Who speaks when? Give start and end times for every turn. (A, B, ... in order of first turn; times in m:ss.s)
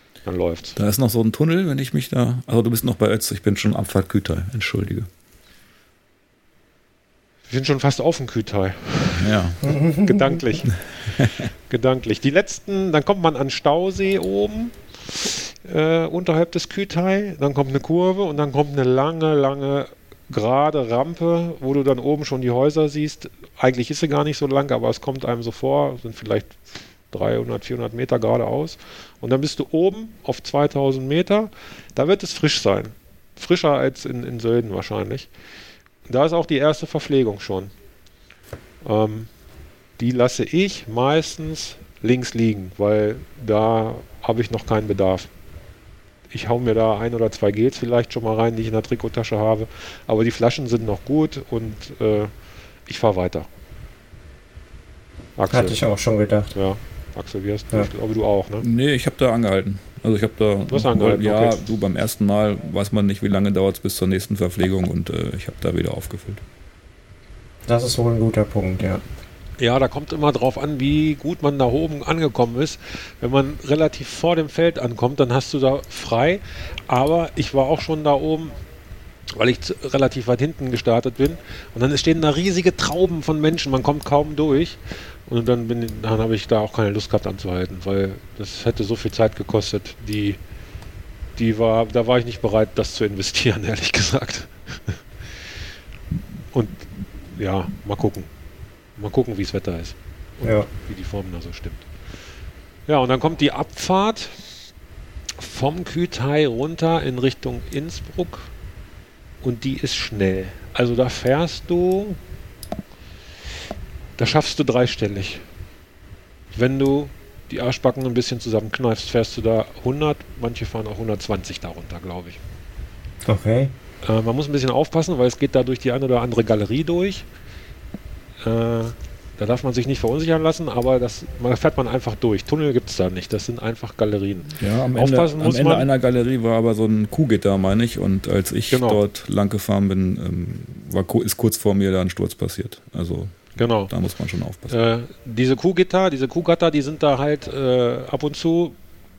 0:00.2-0:00.8 A
0:00.8-0:05.1 B
0:07.5-0:10.8 A
0:09.2-0:09.6 B
0:09.6-0:10.4 C
0:11.7-0:35.3 A
0:36.1-0:37.7 A
0:38.8-0:39.3 A
0:40.0-0:45.3 A
0:46.3-0:52.3 A
0:52.9-0:53.5 A
0:55.4-0:55.8 A
0:55.5-0:56.5 C
0:56.5-0:58.6 A
0:58.6-1:06.4 B
1:00.7-1:01.6 A
1:07.7-1:09.0 C
1:09.6-1:18.6 A
1:19.3-1:30.4 A
1:31.4-1:35.0 A
1:36.5-1:38.3 A
1:39.0-1:41.8 A
1:40.4-1:40.7 C
1:42.9-1:44.5 A
1:45.4-1:48.5 A
1:49.4-1:52.2 A
1:54.2-1:55.4 A
1:56.5-2:02.4 A
2:03.2-2:03.7 C
2:04.0-2:07.2 A
2:08.4-2:15.9 A
2:14.6-2:24.7 B
2:18.7-2:19.0 A
2:23.6-2:23.9 A
2:24.7-2:28.8 A